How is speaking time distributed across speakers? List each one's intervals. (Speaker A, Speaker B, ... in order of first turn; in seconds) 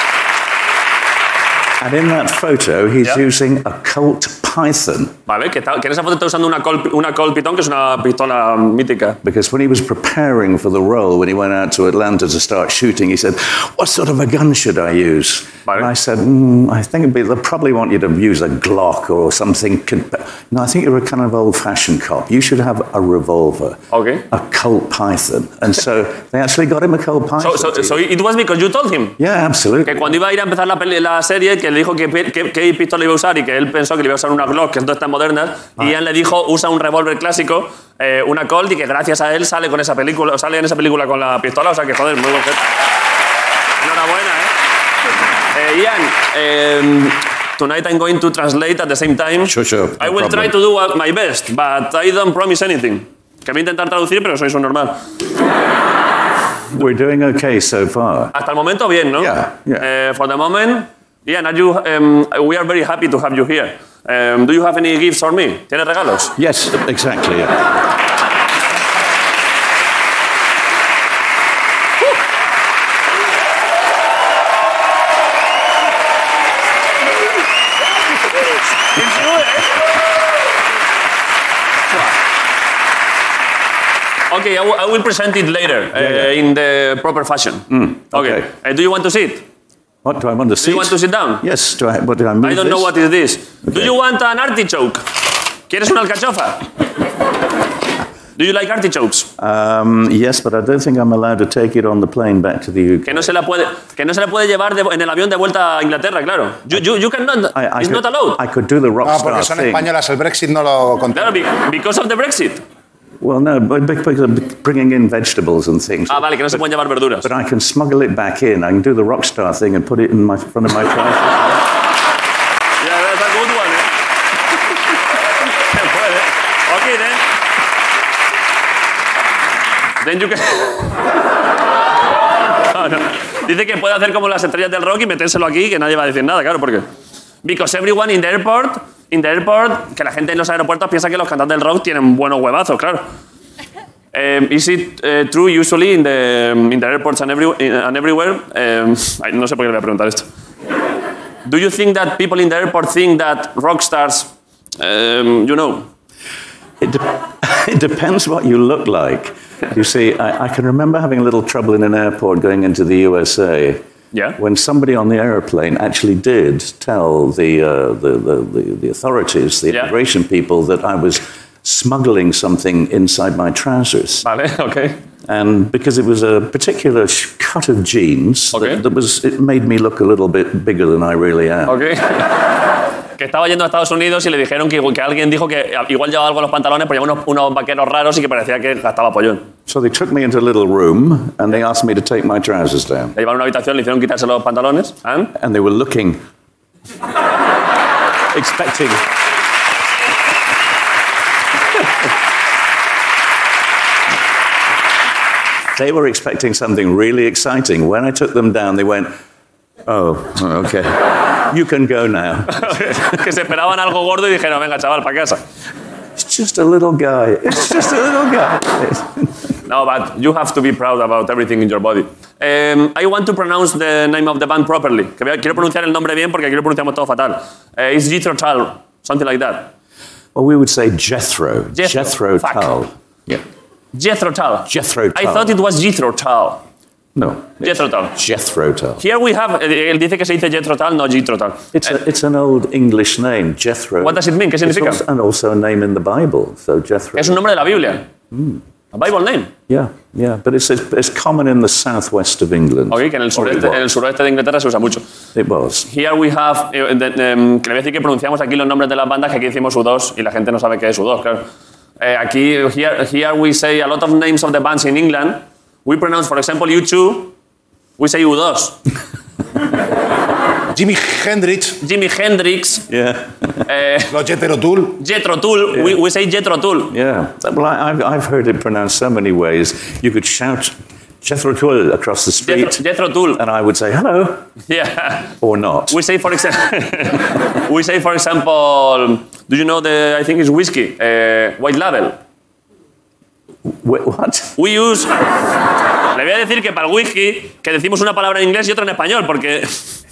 Speaker A: 1.8-5.1, 9.2-28.0, 29.2-30.2, 49.5-50.6, 56.7-58.3, 59.1-59.8, 66.4-67.6, 85.9-86.3, 87.7-88.5, 90.0-92.9, 93.6-93.9, 99.4-103.3, 107.5-109.9, 113.2-116.6, 117.2-121.6, 156.8-163.8, 164.4-174.2, 175.3-181.8, 189.7-193.1, 195.3-196.2, 198.3-199.0, 205.8-209.1, 209.8-213.2, 216.2-219.3, 230.3-233.4, 234.7-235.5, 237.1-239.0, 241.7-247.5, 248.3-248.6, 249.7-253.9, 255.3-255.9, 272.9-273.6, 275.7-276.0, 276.9-282.8, 283.3-284.5, 285.4-286.0, 293.6-294.5
Speaker B: 5.3-9.2, 23.9-24.2, 27.4-29.2, 29.8-42.6, 43.8-44.5, 45.5-55.0, 58.3-66.3, 78.9-79.9, 84.3-89.4, 90.6-91.4, 92.4-95.0, 95.7-96.6, 98.4-99.3, 103.0-108.4, 111.1-112.6, 116.1-117.3, 122.8-123.9, 125.6-127.2, 130.0-130.9, 132.6-136.9, 137.4-143.1, 144.1-150.2, 151.4-155.9, 164.1-164.4, 174.2-175.0, 178.5-178.8, 181.7-182.3, 183.2-189.4, 193.1-195.3, 212.5-215.4, 219.7-229.7, 231.8-232.7, 233.9-236.6, 237.6-238.1, 239.0-241.7, 244.0-245.0, 247.2-248.0, 248.9-249.5, 252.9-255.0, 255.9-261.4, 262.0-267.3, 268.0-268.8, 271.8-272.9, 273.6-274.1, 275.0-276.9, 282.4-283.4, 284.7-285.3, 285.9-292.2, 294.6-295.1, 296.1-299.8
Speaker C: 109.0-111.4, 270.7-271.8, 274.1-275.0